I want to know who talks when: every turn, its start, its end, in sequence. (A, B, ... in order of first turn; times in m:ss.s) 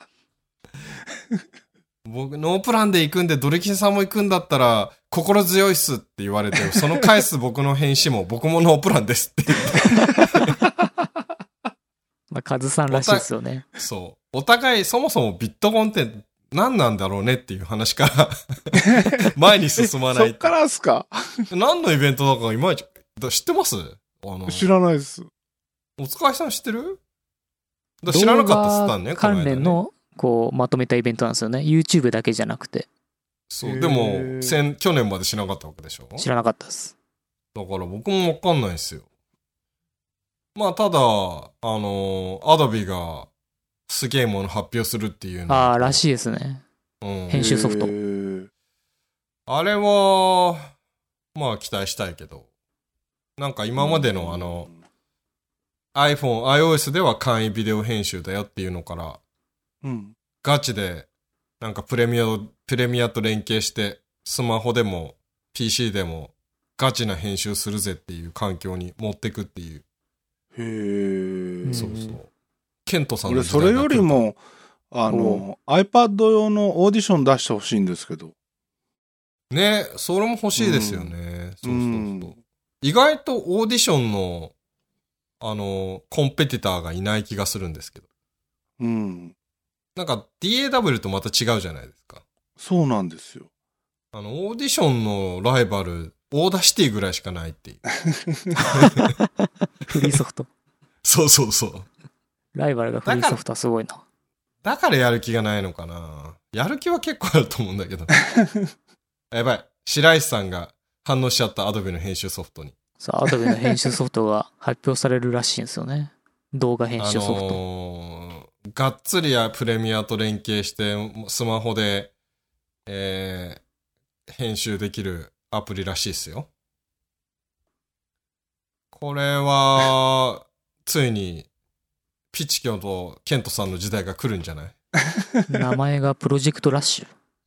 0:02.0-0:10.5 A
0:12.3-0:13.7 B
0:12.9-0:20.5 A
0:18.9-0:19.2 C
0:20.1-0:21.2 C
0:21.5-0:24.7 A
0:24.5-0:25.3 C
0:26.0-0:27.0 A
0:28.0-0:29.8 A
0:28.1-0:32.9 B
0:33.5-0:36.3 A
0:33.6-0:34.6 C
0:36.2-0:36.9 B
0:37.5-0:39.1 A
0:40.5-0:43.3 A
0:43.9-0:46.0 A
0:45.5-0:46.6 B
0:47.0-0:47.4 A
0:47.3-0:47.9 B
0:47.3-0:48.5 C
0:49.5-0:50.7 A
0:51.3-0:52.5 A
0:53.4-0:54.7 A
0:53.8-0:54.8 C
0:55.9-0:59.2 A
0:59.8-1:00.1 C
1:00.4-1:01.1 A
1:01.6-1:09.8 A
1:10.5-1:11.8 C
1:11.6-1:12.2 B
1:11.7-1:12.3 A
1:12.8-1:14.2 A
1:13.3-1:14.4 C
1:14.9-1:18.3 C
1:19.5-1:24.5 A
1:20.6-1:21.1 C
1:21.6-1:22.4 C
1:25.4-1:28.0 A
1:28.8-1:29.3 C
1:30.0-1:32.2 A
1:32.6-1:33.5 C
1:34.1-1:37.8 A
1:38.0-1:38.5 C
1:38.5-1:39.1 A
1:38.9-1:40.5 B
1:41.0-1:41.9 A
1:42.5-1:44.0 B
1:43.0-1:43.4 A
1:44.6-1:48.1 A
1:49.3-1:52.7 A
1:53.0-1:57.6 B
1:57.0-2:02.1 A
2:02.8-2:03.6 A
2:04.3-2:06.5 A
2:08.9-2:11.5 A
2:12.3-2:14.7 A
2:15.5-2:17.1 B